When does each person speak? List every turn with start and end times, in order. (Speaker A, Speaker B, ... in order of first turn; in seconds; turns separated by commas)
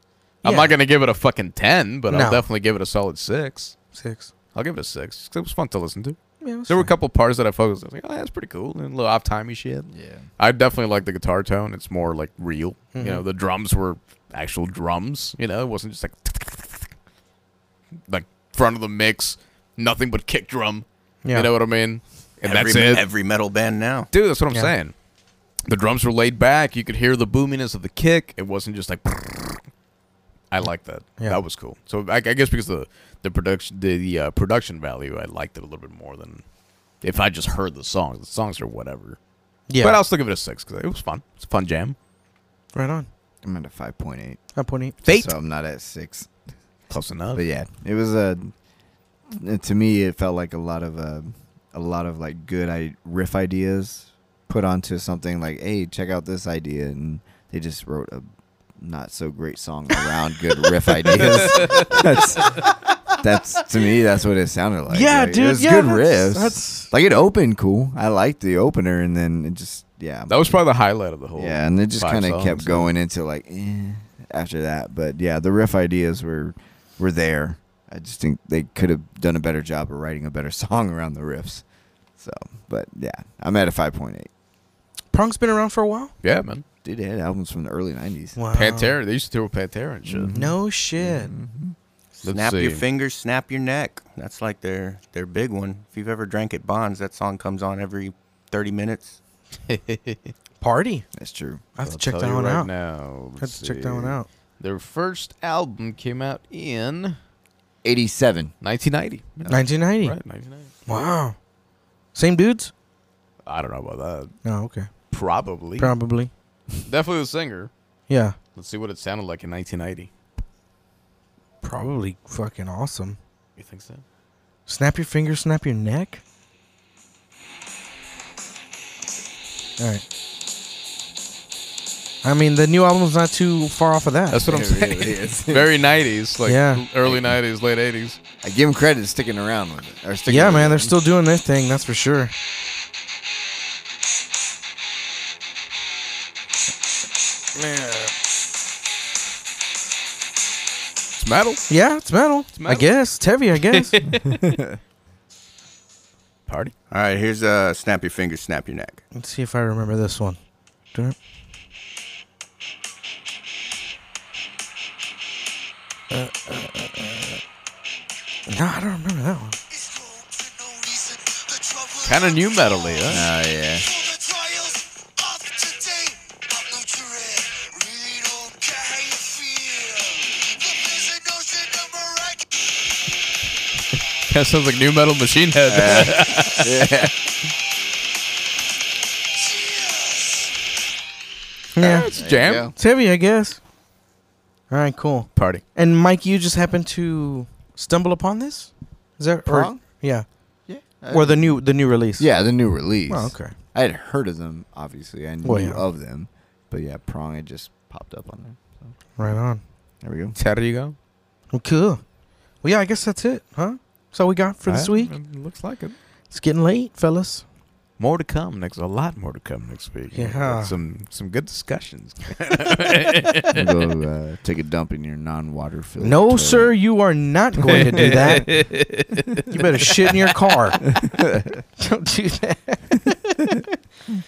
Speaker A: 0.4-3.7, Speaker B: 0.4-0.8, Speaker B: 2.1-2.5, Speaker B: 3.9-4.3, Speaker A: 4.5-6.2, Speaker B: 6.4-6.9, Speaker A: 6.7-9.9, Speaker C: 9.9-10.2, Speaker A: 10.4-16.9, Speaker B: 12.9-13.2, Speaker A: 18.1-23.1, Speaker B: 21.2-21.5, Speaker D: 22.4-24.1, Speaker A: 24.1-24.9, Speaker A: 25.6-29.6, Speaker A: 30.5-36.4, Speaker A: 37.0-39.2, Speaker B: 39.7-40.0, Speaker A: 39.8-42.0, Speaker B: 42.7-43.1, Speaker C: 43.4-44.4, Speaker B: 44.5-45.0, Speaker A: 45.0-45.3, Speaker C: 45.0-46.3, Speaker A: 46.9-47.4, Speaker C: 47.3-48.5, Speaker C: 49.3-62.6, Speaker A: 61.2-62.0, Speaker C: 63.2-70.3, Speaker B: 64.9-66.9, Speaker A: 70.3-72.9, Speaker C: 71.4-81.6, Speaker C: 82.2-84.3, Speaker B: 85.1-86.1, Speaker A: 86.2-86.6, Speaker C: 86.8-88.4, Speaker B: 88.3-89.0, Speaker A: 88.5-90.5, Speaker C: 90.0-91.7, Speaker B: 90.3-91.3, Speaker D: 92.2-99.2, Speaker A: 92.2-92.8, Speaker A: 99.7-100.2, Speaker B: 100.6-101.0, Speaker C: 101.1-101.7, Speaker B: 101.8-102.7, Speaker A: 101.8-107.2, Speaker B: 103.4-104.3, Speaker C: 107.8-108.5, Speaker A: 108.6-110.7, Speaker B: 109.5-110.2, Speaker B: 110.9-111.3, Speaker B: 112.1-112.7, Speaker A: 113.4-114.3, Speaker B: 114.4-114.9, Speaker A: 115.1-116.0, Speaker B: 115.8-116.3, Speaker A: 116.8-117.7, Speaker B: 118.1-118.4, Speaker A: 118.5-120.1, Speaker B: 121.6-123.2, Speaker A: 123.6-124.0, Speaker B: 124.7-126.2, Speaker B: 129.8-130.0, Speaker B: 132.2-134.4, Speaker A: 134.3-138.2, Speaker C: 134.4-135.7, Speaker B: 136.4-136.8, Speaker C: 137.0-137.4, Speaker C: 138.4-140.9, Speaker B: 140.3-142.3, Speaker B: 147.6-148.1, Speaker A: 151.2-151.6, Speaker B: 151.7-154.0, Speaker A: 152.5-152.9, Speaker A: 153.5-154.4, Speaker C: 154.3-154.6, Speaker A: 156.5-156.7, Speaker D: 156.9-159.0, Speaker B: 159.1-160.4, Speaker B: 166.1-167.4, Speaker B: 168.5-169.6, Speaker A: 172.0-173.3, Speaker C: 173.1-174.0, Speaker C: 176.8-180.2, Speaker C: 181.0-181.6, Speaker A: 184.3-187.0, Speaker C: 185.7-187.1, Speaker B: 191.7-192.1, Speaker C: 191.8-192.7, Speaker A: 191.8-192.7, Speaker B: 192.8-193.6, Speaker B: 194.7-200.2, Speaker A: 195.3-195.6, Speaker C: 199.4-199.8, Speaker C: 200.7-201.6, Speaker B: 201.1-202.3, Speaker C: 202.2-208.9, Speaker B: 203.1-203.5, Speaker B: 205.4-205.8, Speaker B: 209.2-209.6, Speaker C: 210.0-210.4, Speaker A: 210.4-210.9, Speaker B: 211.5-212.0, Speaker B: 212.6-215.2, Speaker A: 214.7-215.9, Speaker B: 216.3-217.4, Speaker A: 218.0-223.6, Speaker B: 220.1-220.7, Speaker C: 223.5-226.7, Speaker B: 226.0-228.5, Speaker A: 227.7-230.1, Speaker B: 229.5-230.8, Speaker C: 231.0-231.6, Speaker B: 231.8-233.6